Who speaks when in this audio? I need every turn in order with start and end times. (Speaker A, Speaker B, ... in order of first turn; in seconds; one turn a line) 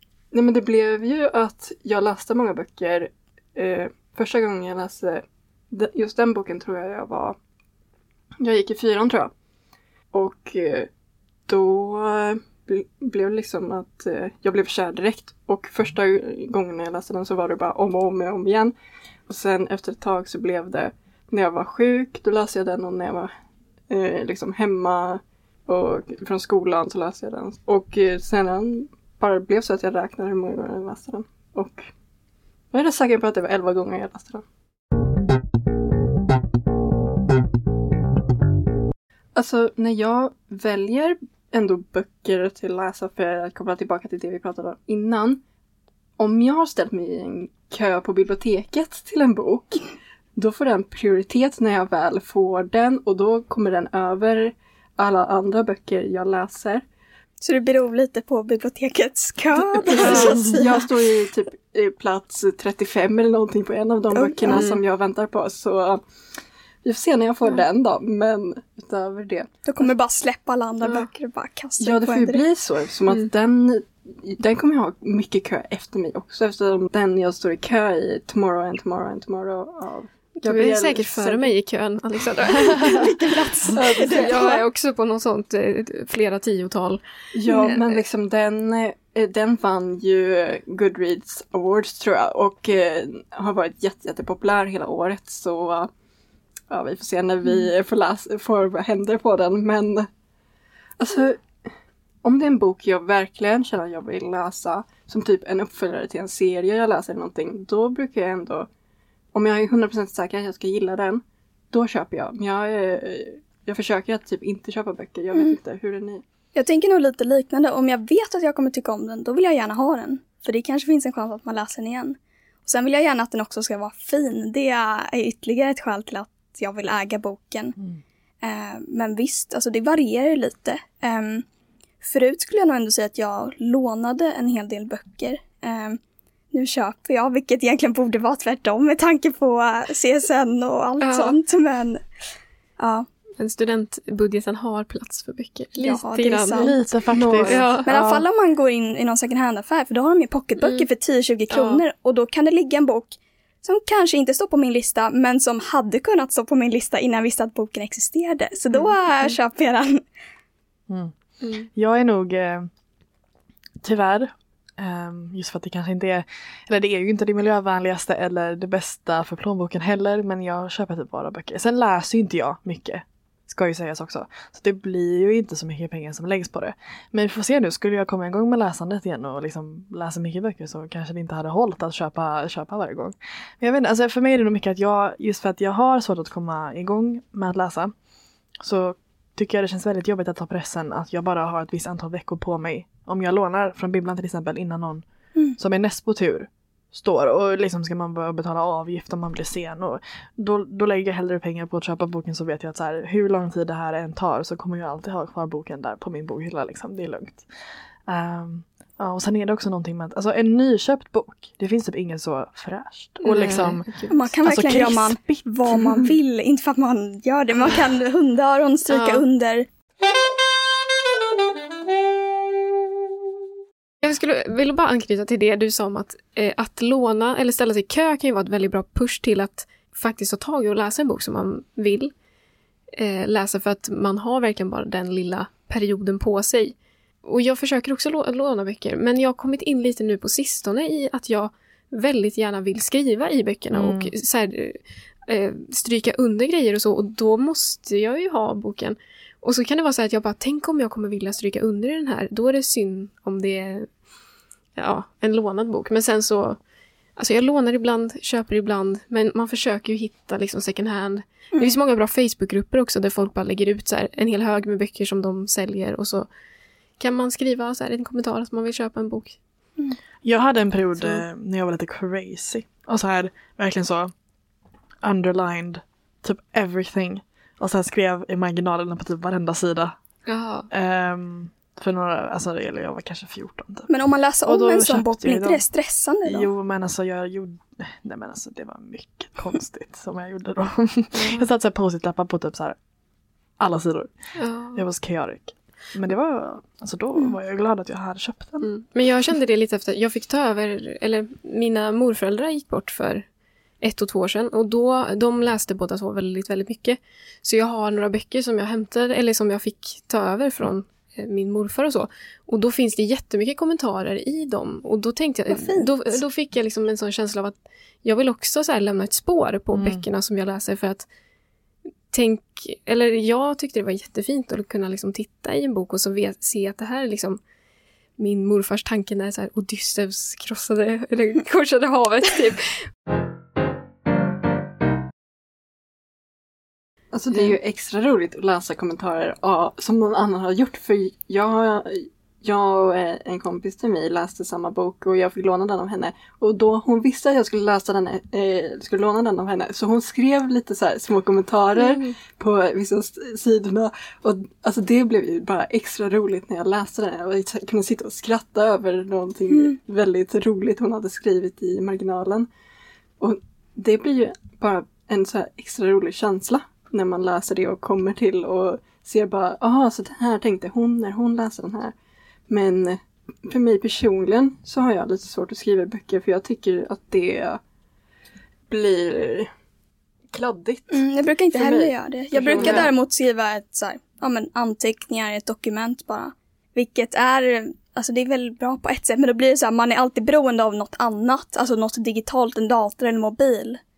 Speaker A: 0.3-7.4
Speaker A: 8.4-9.3
Speaker A: 10.1-10.9
Speaker A: 11.5-18.7
Speaker A: 19.3-23.3
Speaker A: 23.9-31.9
Speaker A: 32.7-34.4
Speaker A: 39.4-45.4
Speaker A: 46.2-56.8
Speaker B: 57.4-60.9
Speaker A: 59.6-66.0
Speaker C: 59.9-60.5
Speaker B: 64.1-64.7
Speaker C: 64.5-64.8
Speaker A: 66.8-69.9
Speaker B: 69.7-72.4
Speaker A: 71.8-81.5
Speaker C: 80.4-87.0
Speaker B: 82.8-84.6
Speaker A: 83.7-84.4
Speaker A: 87.3-95.9
Speaker B: 87.5-87.8
Speaker C: 87.6-88.0
Speaker A: 96.7-100.1
Speaker A: 101.0-101.4
Speaker A: 102.2-108.7
Speaker A: 109.3-116.2
Speaker B: 116.5-127.8
Speaker B: 128.4-131.5
Speaker B: 132.0-136.0
Speaker B: 136.5-142.0
Speaker C: 141.0-141.4
Speaker B: 142.8-143.1
Speaker C: 143.4-146.8
Speaker B: 145.8-146.8
Speaker D: 146.6-147.8
Speaker A: 147.1-147.8
Speaker C: 147.5-148.2
Speaker B: 147.8-160.0
Speaker C: 150.6-150.9
Speaker C: 151.5-151.8
Speaker C: 161.4-161.7
Speaker D: 161.7-162.7
Speaker D: 163.8-187.9
Speaker D: 188.6-195.1
Speaker D: 195.6-207.4
Speaker D: 208.1-215.8
Speaker C: 213.2-214.1
Speaker B: 214.1-219.7
Speaker C: 218.9-219.2
Speaker C: 224.0-232.1
Speaker C: 233.0-253.9
Speaker D: 243.7-244.1
Speaker C: 254.8-256.6
Speaker C: 257.2-266.3
Speaker C: 267.0-269.4
Speaker D: 270.2-274.1
Speaker C: 271.0-271.2
Speaker D: 275.0-280.0
Speaker C: 280.3-280.7
Speaker D: 280.7-283.9
Speaker B: 283.9-286.5
Speaker D: 284.4-285.6
Speaker D: 286.3-292.8
Speaker C: 291.1-291.5
Speaker D: 293.6-294.1
Speaker C: 294.4-294.9
Speaker D: 294.7-298.7
Speaker C: 298.6-303.2
Speaker C: 303.8-321.1
Speaker B: 315.5-316.2
Speaker D: 319.7-320.1
Speaker C: 322.1-327.4
Speaker C: 328.2-332.8
Speaker A: 337.1-362.5
Speaker C: 351.8-352.1
Speaker A: 363.2-371.9
Speaker A: 372.5-377.6
Speaker A: 378.7-379.5
Speaker A: 380.3-381.0
Speaker B: 380.9-393.8
Speaker A: 381.5-382.9